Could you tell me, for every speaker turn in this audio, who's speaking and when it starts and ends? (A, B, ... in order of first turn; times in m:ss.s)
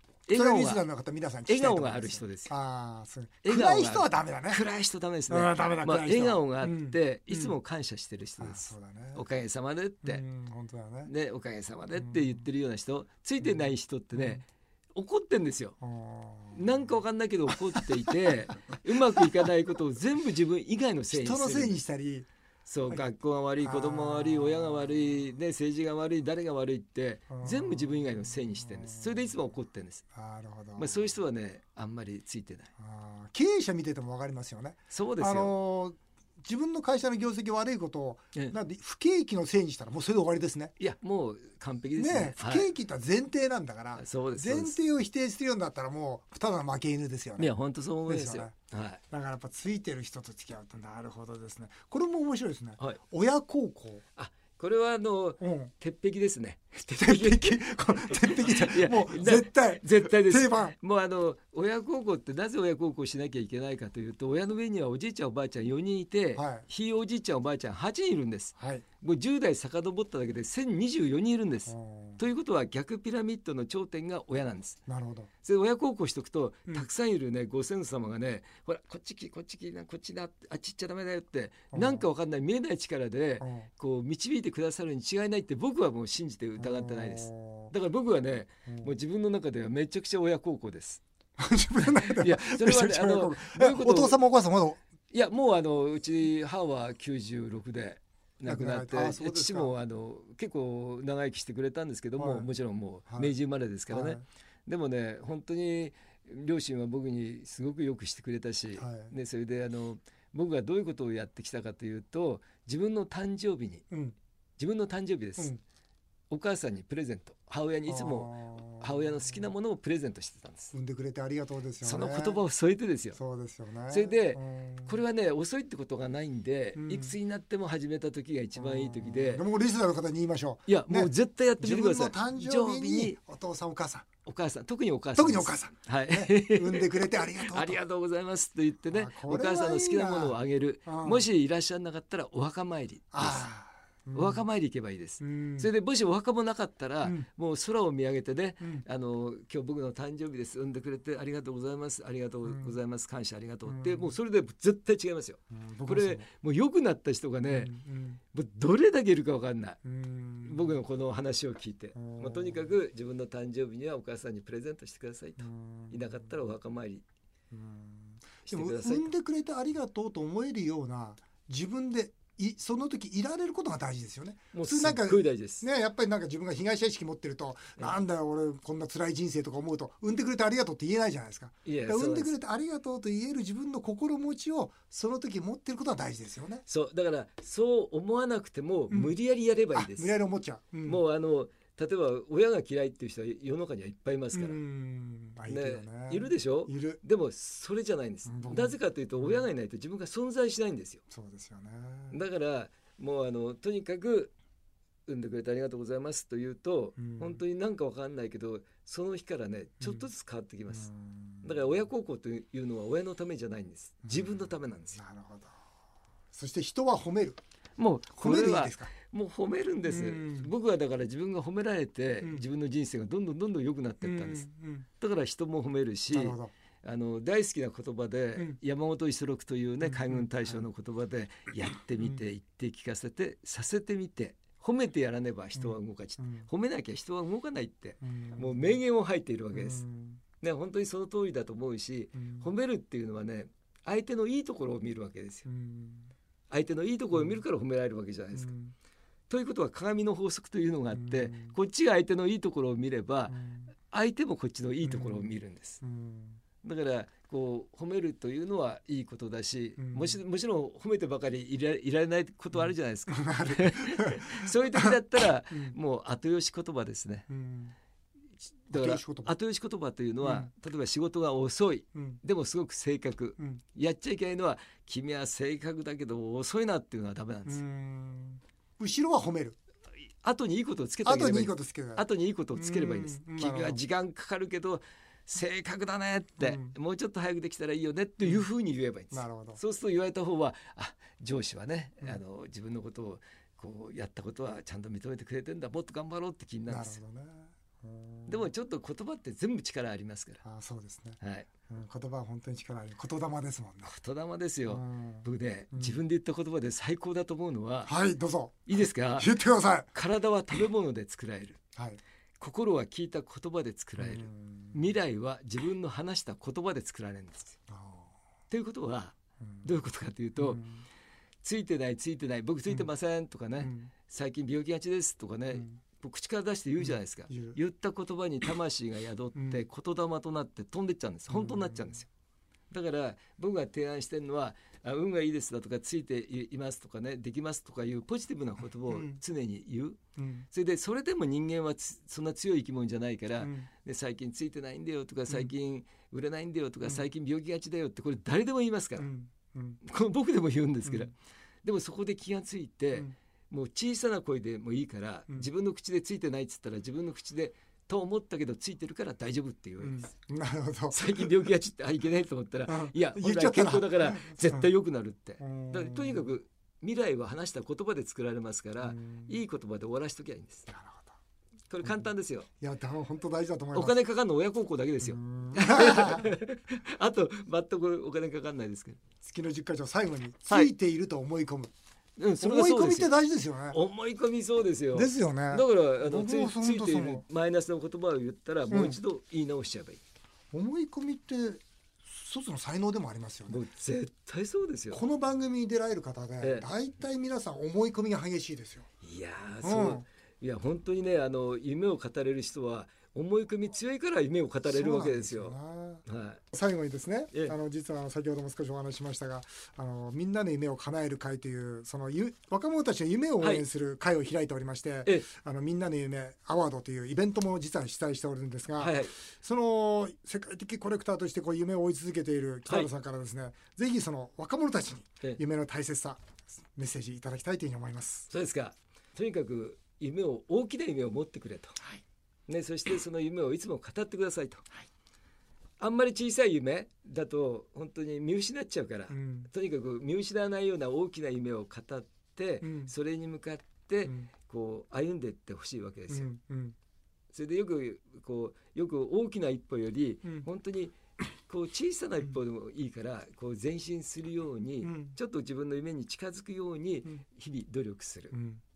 0:00.3-0:00.8 A
0:00.3-0:04.6 B
0:01.5-0:02.5 A
0:03.4-0:10.2 A
0:05.3-0:07.6 B
0:08.4-0:09.2 B
0:10.0-0:11.1 B
0:11.0-0:14.4 A
0:11.9-0:12.4 B
0:13.4-0:14.4 B
0:14.9-0:15.8 A
0:15.8-0:17.0 B
0:16.5-0:21.8 A
0:21.1-0:22.3 B
0:22.7-0:30.0 A
0:23.6-0:25.3 B
0:27.3-0:29.4 B
0:30.1-0:31.1 B
0:30.8-0:32.7 A
0:32.8-0:40.8 B
0:34.9-0:35.5 A
0:40.8-0:42.7 A
0:42.0-0:47.5 B
0:44.0-0:44.8 A
0:47.4-0:49.0 A
0:48.1-0:48.5 B
0:49.1-0:54.0 B
0:54.2-1:14.8 A
0:55.4-0:55.7 B
0:56.9-1:00.8 B
1:06.3-1:06.7 B
1:08.6-1:08.8 B
1:11.7-1:12.2 B
1:14.9-1:15.3 B
1:15.4-1:31.0 A
1:21.7-1:22.0 B
1:23.4-1:23.7 B
1:26.6-1:27.7 B
1:28.7-1:28.9 B
1:31.4-1:34.8 B
1:32.0-1:34.2 A
1:35.1-1:53.8 A
1:38.4-1:39.7 B
1:42.2-1:42.5 B
1:43.1-1:43.3 B
1:43.9-1:44.2 B
1:48.8-1:49.1 B
1:53.9-1:54.2 B
1:54.6-1:55.5 A
1:56.3-2:00.7 A
1:57.9-1:59.5 B
2:00.7-2:02.4 B
2:01.8-2:03.2 A
2:03.1-2:05.0 B
2:03.9-2:09.4 A
2:06.7-2:07.1 B
2:08.6-2:14.1 B
2:10.7-2:13.2 A
2:14.2-2:23.5 A
2:15.2-2:17.8 B
2:18.9-2:21.3 B
2:23.1-2:24.4 B
2:24.1-2:37.7 A
2:25.2-2:25.7 B
2:28.6-2:28.8 B
2:32.4-2:32.7 B
2:33.6-2:34.1 B
2:35.5-2:36.3 B
2:37.5-2:38.2 B
2:38.3-2:39.8 A
2:39.8-2:40.8 B
2:40.4-2:47.0 A
2:41.9-2:42.8 B
2:45.4-2:46.3 B
2:47.5-3:06.6 B
2:48.5-2:49.1 A
2:54.5-2:55.6 A
3:01.6-3:02.4 A
3:06.7-3:10.2 A
3:08.9-3:09.1 B
3:09.7-3:11.0 B
3:10.9-3:14.6 A
3:14.3-3:17.0 B
3:15.4-3:21.0 A
3:18.2-3:19.5 B
3:21.1-3:22.2 B
3:22.1-3:24.3 A
3:25.1-3:30.9 A
3:27.0-3:27.4 B
3:29.8-3:30.0 B
3:30.7-3:31.6 B
3:31.4-3:35.0 A
3:34.0-3:35.5 B
3:36.3-3:37.4 B
3:37.8-3:44.5 A
3:38.2-3:38.9 B
3:39.8-3:40.5 B
3:44.0-3:44.8 B
3:45.0-3:59.8 A
3:46.1-3:46.5 B
3:49.8-3:50.6 B
3:55.5-3:56.5 B
3:58.0-3:58.8 B
3:59.5-4:00.2 B
4:00.4-4:05.5 A
4:02.1-4:02.5 B
4:05.4-4:06.1 B
4:06.5-4:08.5 A
4:07.1-4:07.4 B
4:08.3-4:08.7 B
4:09.3-4:13.4 A
4:10.9-4:11.6 B
4:13.3-4:13.7 B
4:13.9-4:15.8 A
4:14.8-4:15.3 B
4:15.8-4:16.4 B
4:16.6-4:27.3 A
4:19.8-4:20.2 B
4:22.5-4:25.7 B
4:27.3-4:27.7 B
4:28.7-4:37.6 A
4:28.7-4:29.3 B
4:30.2-4:30.5 B
4:37.4-4:39.6 B
4:40.2-4:57.0 A
4:41.0-4:43.8 B
4:46.4-4:46.8 B
4:48.2-4:48.4 B
4:49.1-4:49.6 B
4:56.7-4:58.5 B
4:58.3-5:00.4 A
5:00.4-5:03.9 B
5:01.2-5:01.5 A
5:03.8-5:07.9 A
5:04.6-5:06.0 B
5:07.8-5:09.9 B
5:08.7-5:09.4 A
5:09.9-5:11.6 A
5:11.7-5:12.0 B
5:12.4-5:17.6 A
5:14.0-5:14.9 B
5:17.7-5:18.1 B
5:18.5-5:20.6 A
5:19.4-5:19.7 B
5:20.4-5:20.8 B
5:21.4-5:32.1 A
5:23.6-5:23.9 B
5:25.5-5:25.8 B
5:26.8-5:27.6 B
5:29.3-5:29.7 B
5:31.3-5:31.9 B
5:32.7-5:40.0 A
5:38.9-5:39.2 B
5:40.2-5:40.5 B
5:40.5-5:49.1 A
5:43.4-5:43.7 B
5:49.0-5:49.8 B
5:49.8-5:51.1 A
5:50.8-5:51.1 B
5:51.6-6:00.1 A
5:59.8-6:01.3 B
6:00.9-6:10.7 A
6:02.7-6:04.7 B
6:05.4-6:06.3 B
6:08.8-6:09.4 B
6:10.7-6:11.2 B
6:11.7-6:12.5 A
6:12.6-6:14.0 B
6:13.7-6:19.0 A
6:15.0-6:16.3 B
6:19.2-6:21.7 B
6:22.2-6:23.1 A
6:22.4-6:23.8 B
6:23.7-6:30.0 A
6:24.9-6:27.2 B
6:28.7-6:29.0 B
6:30.5-6:33.6 B
6:33.5-6:35.0 A
6:34.9-6:38.8 B
6:36.4-6:36.7 A
6:39.0-6:45.5 A
6:39.6-6:40.0 B
6:44.6-7:08.3 B
6:46.0-6:46.4 A
6:53.4-6:53.6 A
6:58.8-6:59.1 A
7:08.3-7:11.8 A
7:12.5-7:14.6 A
7:15.8-7:26.3 A
7:19.1-7:19.5 B
7:22.6-7:22.9 B
7:24.0-7:24.3 B
7:26.1-7:26.7 B
7:27.3-7:31.0 A
7:31.5-7:38.3 A
7:34.8-7:35.2 B
7:38.3-7:38.6 B